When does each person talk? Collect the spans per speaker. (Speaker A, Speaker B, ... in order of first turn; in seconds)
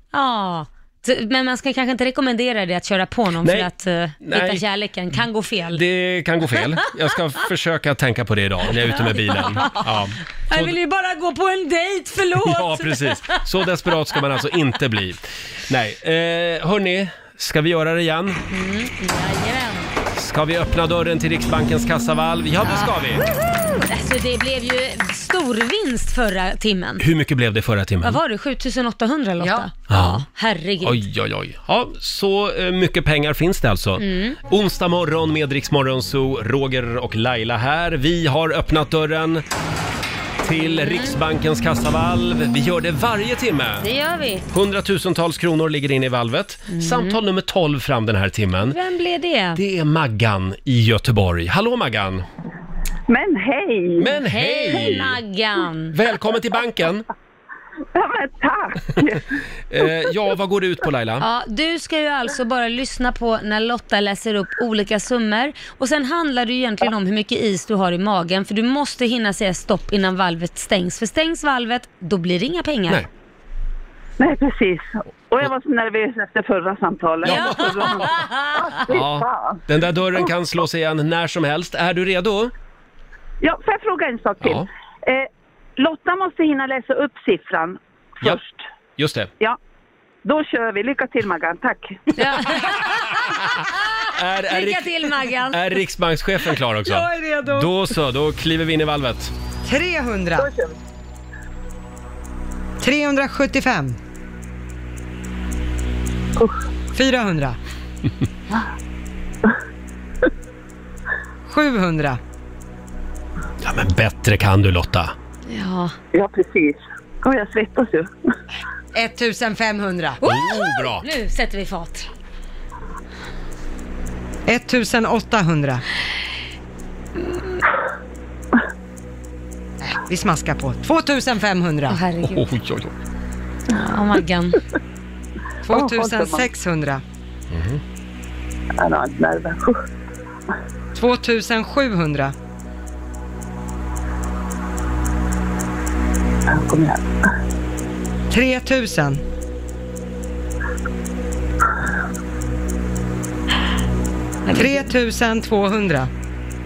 Speaker A: 0.1-5.8, 8.8-13.4, 18.5-19.9, 22.6-27.0, 28.0-31.0, 34.0-34.4, 40.6-41.1, 43.8-44.5, 46.7-47.2, 48.6-49.6, 54.2-56.0, 61.2-73.0, 92.2-93.2, 94.1-95.8, 115.5-115.9, 120.2-122.1, 131.9-132.5, 133.7-134.6
Speaker B: 3.4-3.7, 4.2-4.6, 5.7-10.8, 12.4-18.4, 20.1-23.2, 27.0-28.2, 29.9-30.2, 30.8-39.4, 40.4-43.9, 44.5-48.8, 49.5-52.2, 54.0-55.2, 55.9-57.0, 59.7-61.2, 77.2-78.2, 78.8-82.5, 84.4-84.7, 89.0-89.3, 93.1-99.3, 113.6-115.1, 120.2-121.1, 132.2-132.9, 137.5-137.8
Speaker C: 29.4-29.7, 96.8-97.7, 99.6-100.5, 102.8-104.0, 106.9-107.6, 111.5-112.2, 118.9-120.2, 124.5-125.8, 129.8-132.0, 135.6-137.0, 140.9-142.3, 148.3-149.2, 154.5-156.1
Speaker D: 53.1-54.1, 57.9-59.2, 74.2-79.6, 83.4-88.6, 90.2-92.0, 100.4-100.7, 116.1-118.1, 135.7-136.5, 138.8-139.8, 146.5-147.1